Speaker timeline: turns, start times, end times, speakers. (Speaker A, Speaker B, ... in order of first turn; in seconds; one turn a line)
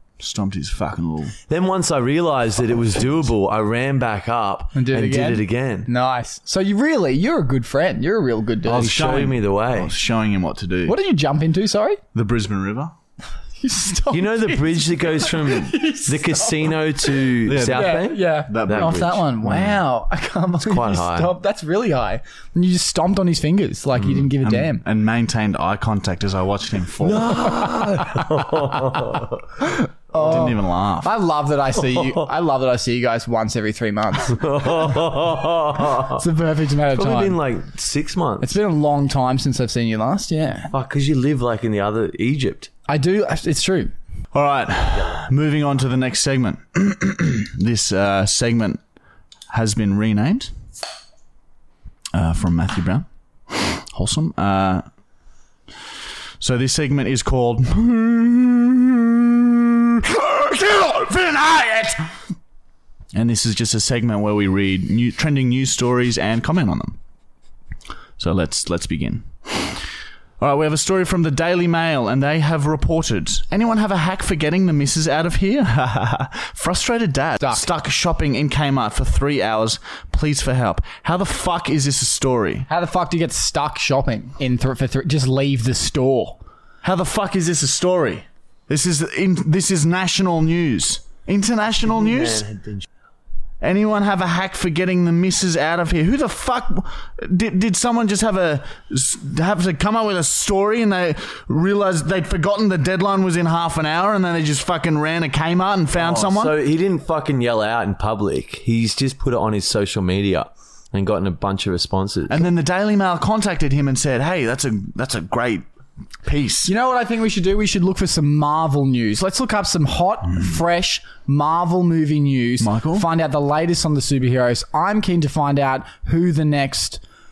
Speaker A: 0.2-1.4
Speaker B: 1.4-5.9
Speaker C: 4.8-8.9
Speaker A: 8.7-11.0
Speaker B: 8.7-9.9
Speaker C: 10.9-12.0
Speaker A: 12.1-12.9
Speaker C: 13.6-24.8
Speaker B: 14.1-19.2
Speaker A: 17.4-19.8
Speaker B: 20.6-21.3
Speaker A: 24.4-27.5
Speaker B: 27.0-29.6
Speaker C: 27.6-28.3
Speaker C: 29.6-34.9
Speaker A: 30.1-31.1
Speaker B: 31.8-32.3
Speaker B: 34.3-36.2
Speaker C: 36.0-37.4
Speaker B: 36.9-38.6
Speaker C: 38.4-40.7
Speaker B: 40.7-42.7
Speaker C: 42.9-43.9
Speaker A: 44.3-48.8
Speaker B: 45.0-45.3
Speaker A: 49.5-50.5
Speaker A: 52.1-54.9
Speaker A: 56.4-62.1
Speaker A: 63.1-67.0
Speaker A: 68.2-69.9
Speaker A: 70.4-82.7
Speaker C: 77.4-77.7
Speaker C: 82.7-86.4
Speaker A: 86.8-92.5
Speaker B: 91.8-92.9
Speaker A: 93.6-106.6
Speaker B: 106.0-112.4
Speaker A: 112.3-115.7
Speaker A: 116.2-116.7
Speaker C: 116.7-127.0
Speaker A: 122.6-123.1